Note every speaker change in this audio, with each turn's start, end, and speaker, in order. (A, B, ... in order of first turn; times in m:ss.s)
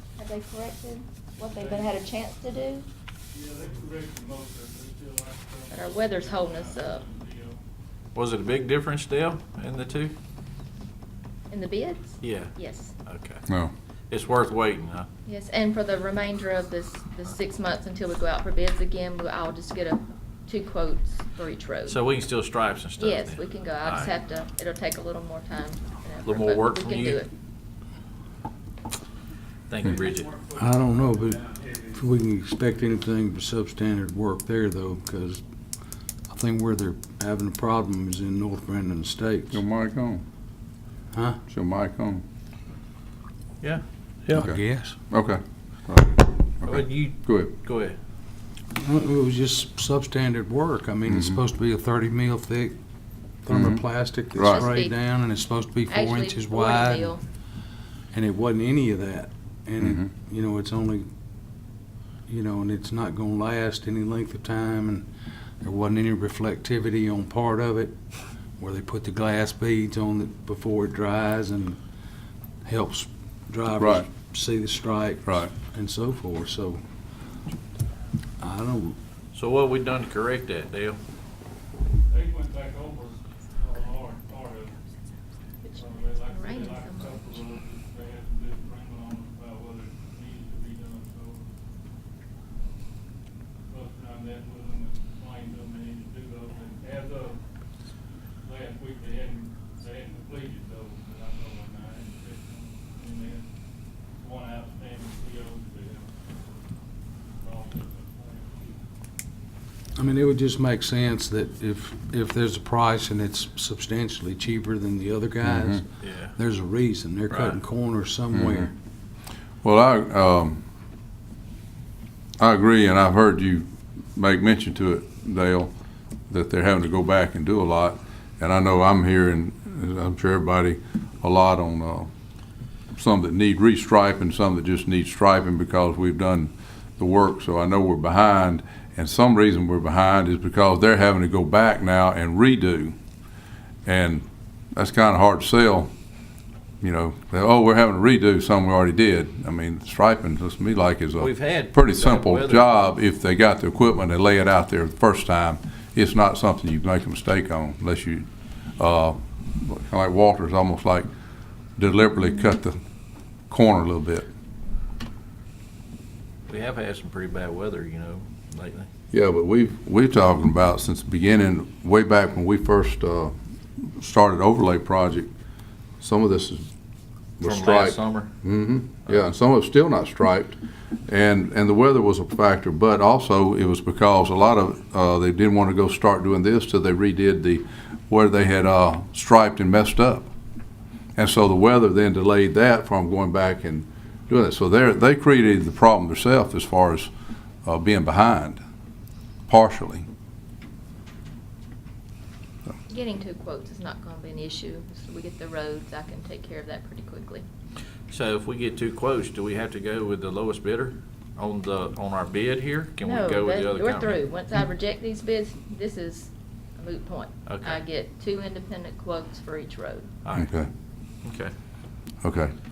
0:00.2-0:02.9 A
0:01.5-0:01.9 B
0:03.3-0:07.6 B
0:05.7-0:07.0 A
0:08.1-0:10.1 C
0:11.5-0:12.9 A
0:12.2-0:12.5 C
0:13.0-0:13.4 C
0:13.5-0:13.7 D
0:14.1-0:15.1 C
0:15.2-0:22.0 A
0:21.9-0:24.1 C
0:23.0-0:27.3 A
0:26.2-0:27.2 C
0:29.7-0:30.3 C
0:30.5-0:35.4 E
0:36.3-0:39.6 E
0:39.5-0:40.2 D
0:41.1-0:41.4 E
0:41.5-0:42.2 D
0:44.3-0:45.0 E
0:45.1-0:47.5 D
0:46.6-0:48.0 C
0:48.8-0:52.8 E
0:51.1-0:51.4 D
0:53.4-0:57.2 E
0:53.5-0:53.8 D
0:54.3-0:54.7 D
0:54.4-0:54.9 A
0:55.9-0:57.2 A
0:58.1-1:01.0 E
1:02.3-1:05.0 E
1:05.6-1:08.0 E
1:08.6-1:11.8 E
1:12.6-1:16.8 E
1:13.8-1:14.1 D
1:15.2-1:15.5 D
1:18.4-1:19.0 E
1:19.3-1:21.0 C
1:22.1-1:24.8 B
1:25.6-1:31.4 B
1:26.3-1:27.4 A
1:33.7-1:37.4 B
1:38.4-1:43.4 B
1:44.2-1:46.3 B
1:47.4-1:48.8 B
1:49.9-1:58.7 E
1:55.4-1:55.8 D
1:56.0-1:56.3 C
1:57.3-1:57.6 C
1:58.3-1:58.7 D
1:59.6-2:00.6 D
2:02.4-2:05.7 D
2:06.3-2:12.1 D
2:12.9-2:22.9 D
2:23.8-2:25.9 D
2:26.8-2:41.1 D
2:31.2-2:32.9 C
2:41.8-2:42.8 D
2:43.5-2:44.3 D
2:46.5-2:48.9 C
2:49.1-2:55.3 D
2:56.0-2:56.7 D
2:57.4-3:00.6 D
2:57.4-2:58.3 C
3:01.1-3:10.3 D
3:11.2-3:17.1 D
3:17.6-3:18.6 D
3:19.5-3:20.1 D
3:22.9-3:27.4 A
3:28.1-3:34.2 C
3:33.0-3:40.1 A
3:37.4-3:37.8 C
3:40.2-3:40.5 C
3:40.3-3:40.7 D
3:41.2-3:41.5 C
3:42.2-3:42.5 D